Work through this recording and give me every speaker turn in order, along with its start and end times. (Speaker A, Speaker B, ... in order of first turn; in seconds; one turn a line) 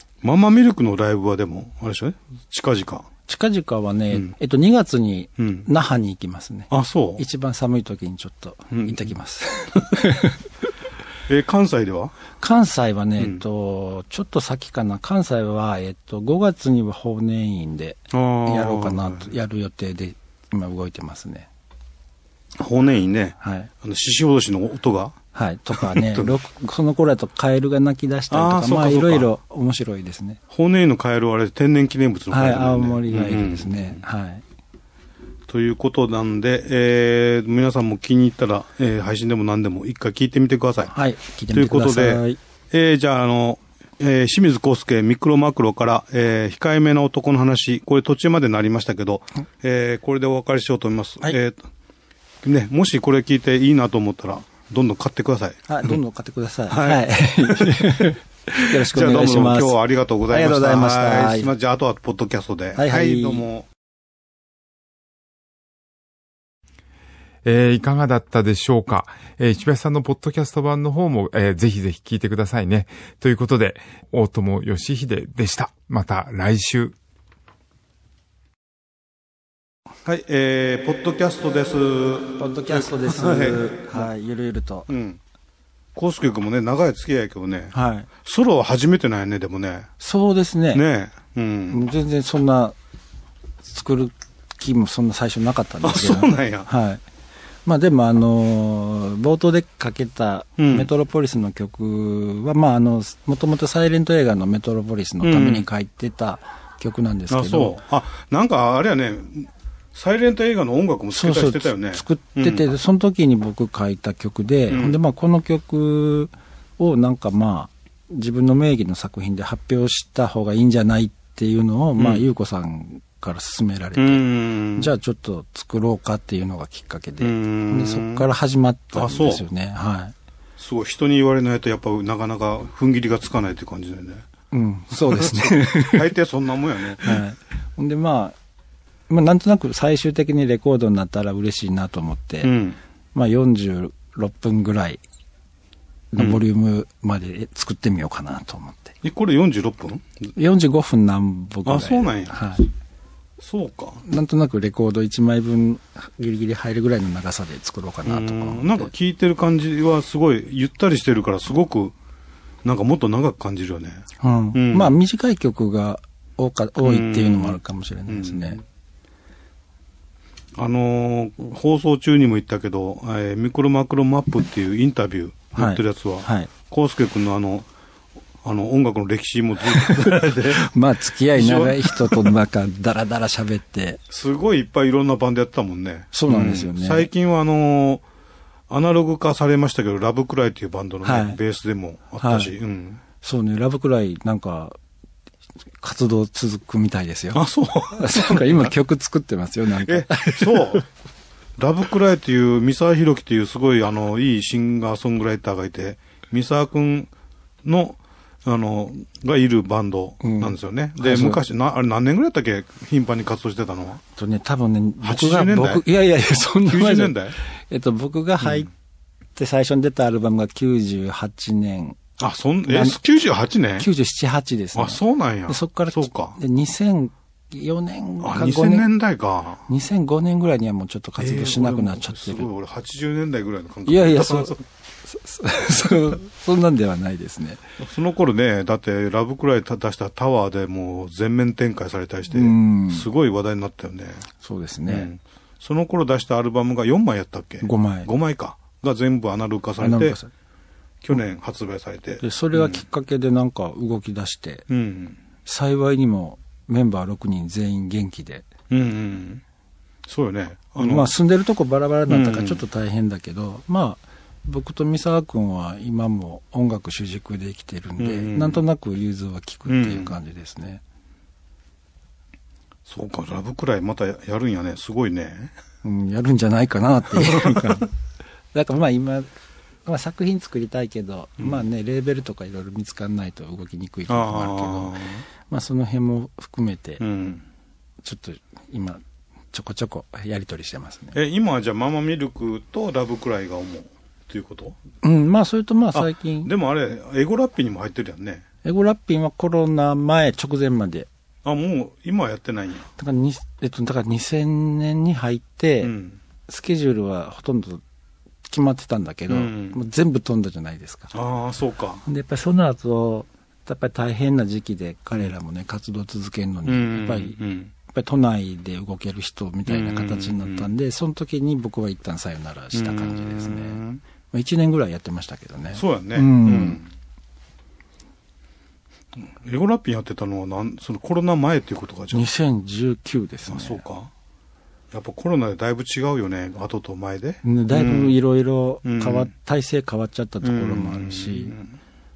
Speaker A: 0.2-3.1
Speaker B: 3.3-10.4
Speaker A: 5.4-5.7
Speaker A: 6.7-7.2
Speaker A: 11.3-12.2
Speaker B: 12.4-21.5
Speaker A: 18.1-19.2
Speaker A: 22.6-25.2
Speaker B: 23.4-23.7
Speaker B: 25.3-30.4
Speaker A: 25.7-26.3
Speaker A: 28.3-29.3
Speaker A: 30.5-34.0
Speaker B: 32.3-34.4
Speaker A: 35.5-40.9
Speaker B: 40.9-42.4
Speaker A: 41.5-51.7
Speaker A: 52.4-56.0
Speaker B: 55.7-61.5
Speaker A: 56.7-63.7
Speaker B: 62.8-63.5
Speaker C: 67.5-77.0
Speaker A: 80.0-84.1
Speaker B: 82.4-84.9
Speaker A: 84.9-85.2
Speaker A: 86.0-89.9
Speaker B: 87.7-88.1
Speaker B: 90.0-90.8
Speaker A: 90.7-91.9
Speaker B: 91.7-92.8
Speaker B: 93.7-97.0
Speaker A: 95.8-96.7
Speaker B: 97.7-107.8
Speaker A: 100.6-100.9
Speaker A: 105.2-105.7
Speaker A: 107.3-112.7
Speaker B: 111.1-130.1
Speaker A: 114.7-115.0
Speaker A: 122.0-122.2
Speaker A: 124.0-124.9
Speaker A: 127.2-128.3
Speaker A: 129.0-129.5
Speaker A: 130.6-134.2
Speaker B: 134.5-136.1
Speaker A: 134.9-137.2
Speaker B: 137.0-138.3
Speaker B: 139.1-142.5
Speaker A: 142.4-142.8
Speaker B: 143.1-145.0
Speaker B: 146.1-149.0
Speaker A: 149.0-150.1
Speaker B: 150.4-152.7
Speaker A: 151.7-152.4
Speaker A: 153.4-154.0
Speaker B: 154.1-158.9
Speaker A: 158.1-161.9
Speaker A: 162.6-164.9
Speaker B: 164.2-168.6
Speaker A: 166.8-168.6
Speaker A: 170.6-177.7
Speaker B: 175.6-176.5
Speaker A: 178.4-180.7
Speaker B: 179.7-184.0
Speaker A: 181.3-182.3
Speaker A: 184.1-188.0
Speaker B: 186.1-187.1
Speaker A: 188.7-193.0
Speaker B: 191.0-191.4
Speaker B: 192.2-192.5
Speaker B: 193.2-194.8
Speaker B: 195.8-200.8
Speaker A: 197.3-198.8
Speaker A: 199.8-200.9
Speaker A: 201.6-207.1
Speaker A: 207.7-214.0
Speaker B: 210.2-211.4
Speaker B: 214.2-218.7
Speaker A: 215.0-215.9
Speaker A: 216.5-217.3
Speaker B: 219.4-222.0
Speaker A: 222.2-223.9
Speaker B: 222.7-223.0
Speaker B: 223.8-228.9
Speaker A: 224.8-226.4
Speaker A: 228.2-229.7
Speaker B: 229.7-232.5
Speaker A: 231.2-234.6
Speaker B: 233.9-237.6
Speaker A: 237.8-244.3
Speaker B: 242.3-243.1
Speaker B: 244.4-245.1
Speaker A: 244.9-250.2
Speaker B: 247.6-248.1
Speaker B: 249.8-250.3
Speaker A: 251.0-252.8
Speaker B: 252.2-254.7
Speaker A: 254.7-255.2
Speaker B: 255.4-258.5
Speaker A: 258.7-259.4
Speaker A: 260.1-261.1
Speaker B: 260.8-270.8
Speaker A: 262.1-262.6
Speaker A: 268.0-268.6
Speaker A: 269.7-270.2
Speaker A: 272.9-275.5
Speaker B: 275.8-277.9
Speaker A: 277.2-277.8
Speaker B: 278.5-279.3
Speaker B: 279.9-287.0
Speaker A: 284.1-285.2
Speaker A: 287.0-287.4
Speaker B: 288.0-289.0
Speaker B: 289.5-291.2
Speaker A: 291.1-294.8
Speaker B: 295.0-296.5
Speaker A: 295.9-298.5
Speaker B: 298.6-301.1
Speaker A: 301.4-302.9
Speaker B: 303.0-305.9
Speaker A: 305.8-306.2
Speaker B: 306.5-307.8
Speaker B: 308.5-311.1
Speaker A: 309.3-309.8
Speaker A: 311.1-312.0
Speaker B: 312.1-326.8
Speaker A: 316.7-317.7
Speaker A: 319.7-320.7
Speaker A: 322.7-324.0
Speaker A: 325.8-326.9
Speaker A: 329.2-332.3
Speaker B: 332.1-333.8
Speaker A: 333.5-334.1
Speaker A: 334.9-338.2
Speaker B: 337.4-341.6
Speaker A: 338.9-339.3
Speaker A: 340.4-341.8